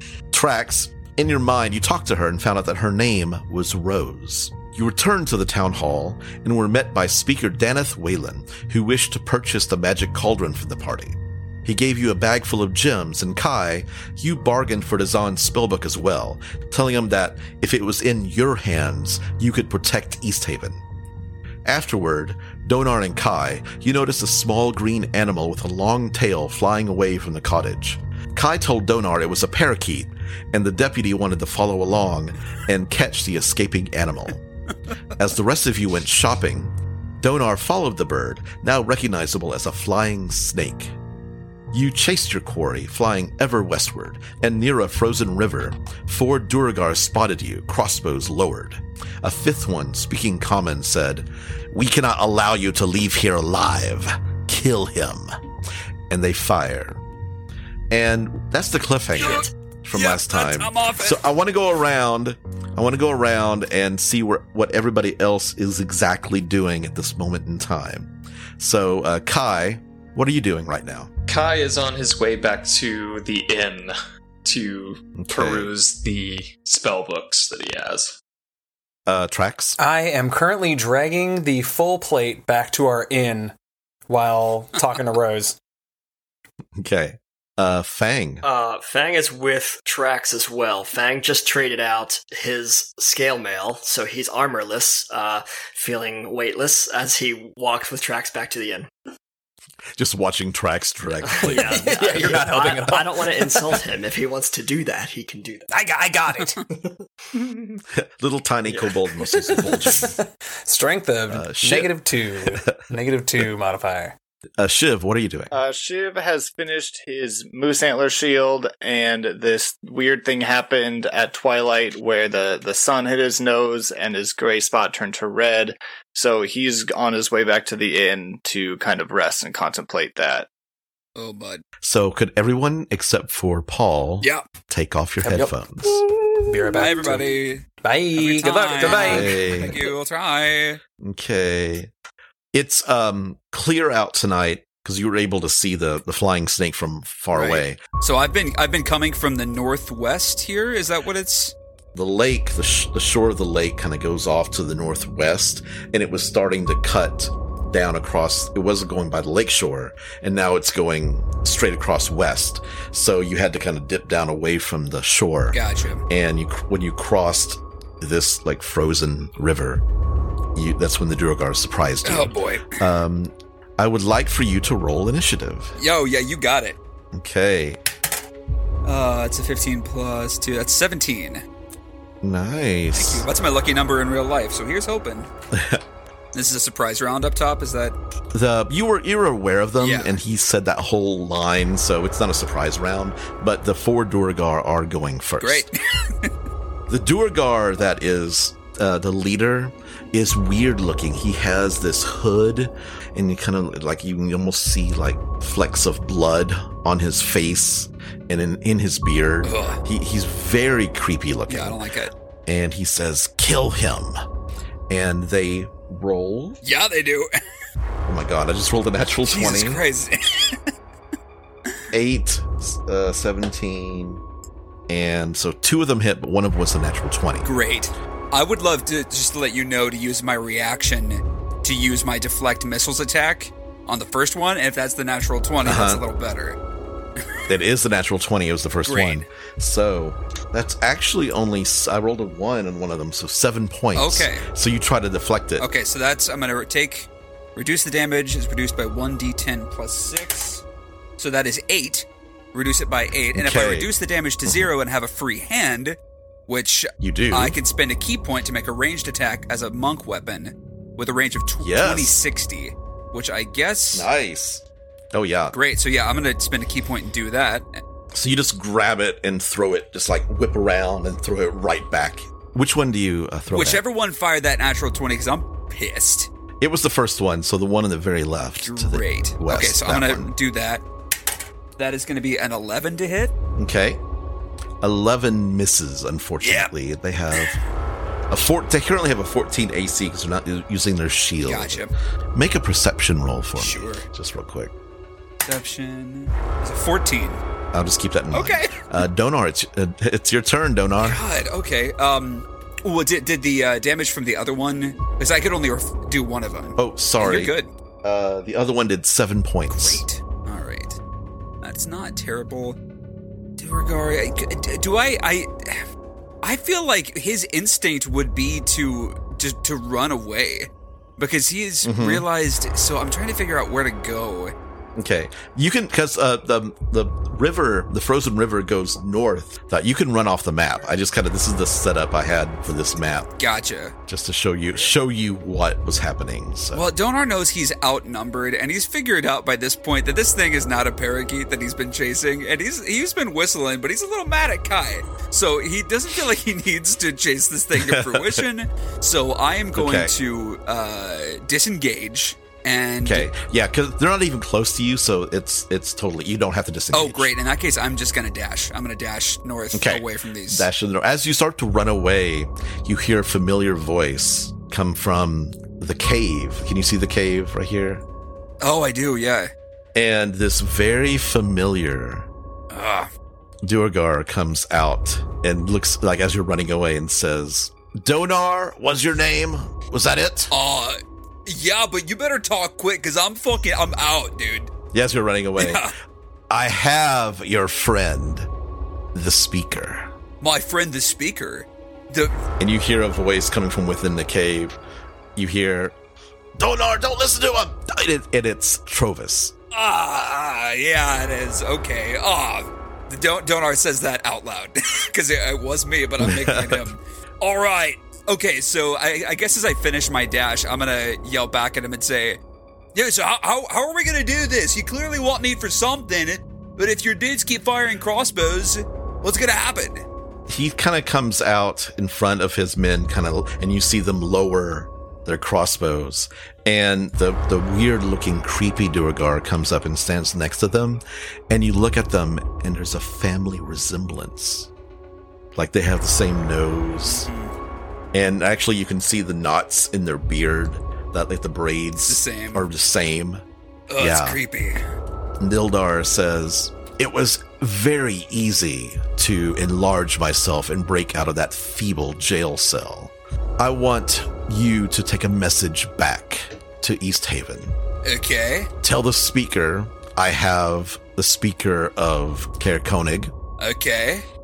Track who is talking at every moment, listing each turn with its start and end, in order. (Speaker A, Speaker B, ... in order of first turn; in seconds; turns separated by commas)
Speaker A: 0.3-20.8, Speaker A: 21.6-34.4, Speaker A: 35.2-40.9, Speaker A: 41.7-55.3, Speaker A: 56.1-57.0, Speaker A: 57.9-71.1, Speaker B: 59.2-59.5, Speaker C: 59.2-61.2, Speaker D: 71.3-78.2, Speaker A: 75.2-75.7, Speaker A: 79.1-79.8, Speaker E: 79.8-83.5, Speaker E: 84.1-85.6, Speaker A: 86.8-88.4, Speaker B: 88.4-98.9, Speaker A: 100.0-102.1, Speaker B: 101.3-105.7, Speaker E: 101.4-103.8, Speaker E: 105.7-106.6, Speaker B: 106.7-107.6, Speaker A: 108.0-110.2, Speaker B: 108.7-109.9, Speaker E: 110.0-114.2, Speaker A: 111.3-112.7, Speaker A: 114.6-115.5, Speaker F: 115.5-130.5, Speaker C: 131.2-131.6, Speaker A: 131.8-136.0, Speaker E: 135.2-135.9, Speaker E: 136.4-137.3, Speaker C: 136.7-140.8, Speaker E: 137.8-139.4, Speaker A: 138.8-139.8, Speaker A: 141.0-141.9, Speaker A: 142.5-147.8, Speaker C: 147.3-151.6, Speaker A: 151.9-169.8, Speaker C: 165.5-166.0, Speaker A: 170.6-175.8, Speaker C: 172.1-172.8, Speaker C: 175.8-176.8, Speaker A: 177.1-177.8, Speaker C: 178.8-181.4, Speaker A: 182.2-183.3, Speaker C: 182.9-185.3, Speaker A: 185.5-185.8, Speaker C: 186.3-188.0, Speaker A: 188.3-195.7, Speaker C: 189.8-190.2, Speaker C: 195.4-196.3, Speaker A: 196.9-211.8, Speaker C: 209.4-209.8, Speaker C: 211.5-212.1, Speaker A: 212.5-214.2, Speaker A: 214.9-216.6, Speaker C: 216.6-217.4, Speaker A: 218.1-219.8, Speaker C: 219.2-220.7, Speaker A: 221.9-224.2, Speaker A: 224.9-227.5, Speaker C: 227.4-236.6, Speaker A: 235.6-236.0, Speaker A: 237.5-245.7, Speaker C: 238.9-239.3, Speaker C: 243.9-244.4, Speaker C: 245.6-250.6, Speaker C: 251.2-256.0, Speaker A: 253.3-253.9, Speaker C: 256.5-264.1, Speaker A: 257.0-257.6, Speaker A: 261.6-262.2, Speaker A: 263.9-265.6, Speaker C: 265.5-267.8, Speaker A: 268.1-273.8, Speaker C: 273.5-276.3, Speaker A: 276.6-280.3, Speaker C: 278.6-280.8, Speaker C: 281.8-283.3, Speaker A: 283.6-284.0, Speaker A: 284.8-287.6, Speaker C: 286.4-286.7, Speaker A: 288.3-294.7, Speaker C: 291.4-291.9, Speaker C: 293.6-294.1, Speaker C: 295.4-297.4, Speaker A: 297.7-301.2, Speaker C: 298.3-298.9, Speaker C: 301.0-307.7, Speaker A: 306.8-310.1, Speaker C: 309.7-311.0, Speaker C: 311.6-312.8, Speaker C: 313.6-315.9, Speaker C: 316.4-324.5, Speaker A: 321.8-322.3, Speaker A: 325.0-333.3, Speaker C: 333.4-333.9, Speaker A: 334.1-336.9, Speaker C: 336.7-353.3, Speaker A: 347.8-348.4, Speaker A: 349.7-350.1, Speaker A: 353.0-357.3, Speaker C: 356.9-360.7, Speaker A: 359.7-368.0, Speaker C: 368.6-369.5, Speaker A: 369.9-372.3, Speaker C: 372.7-373.1, Speaker A: 373.6-380.5, Speaker C: 380.5-384.7, Speaker A: 384.9-385.9, Speaker C: 385.6-385.9, Speaker A: 386.5-388.5, Speaker A: 389.1-390.1, Speaker C: 390.4-392.4, Speaker A: 392.6-394.8, Speaker A: 395.4-396.0, Speaker A: 396.6-399.5, Speaker C: 399.7-412.4, Speaker A: 406.2-406.9, Speaker C: 412.9-420.1, Speaker A: 420.5-434.7, Speaker A: 435.6-437.3, Speaker C: 437.0-437.5, Speaker A: 438.1-443.4, Speaker C: 442.0-442.7, Speaker C: 443.9-444.8, Speaker A: 444.0-444.4, Speaker A: 445.4-457.8, Speaker C: 458.0-458.7, Speaker A: 458.8-463.3, Speaker C: 463.6-464.3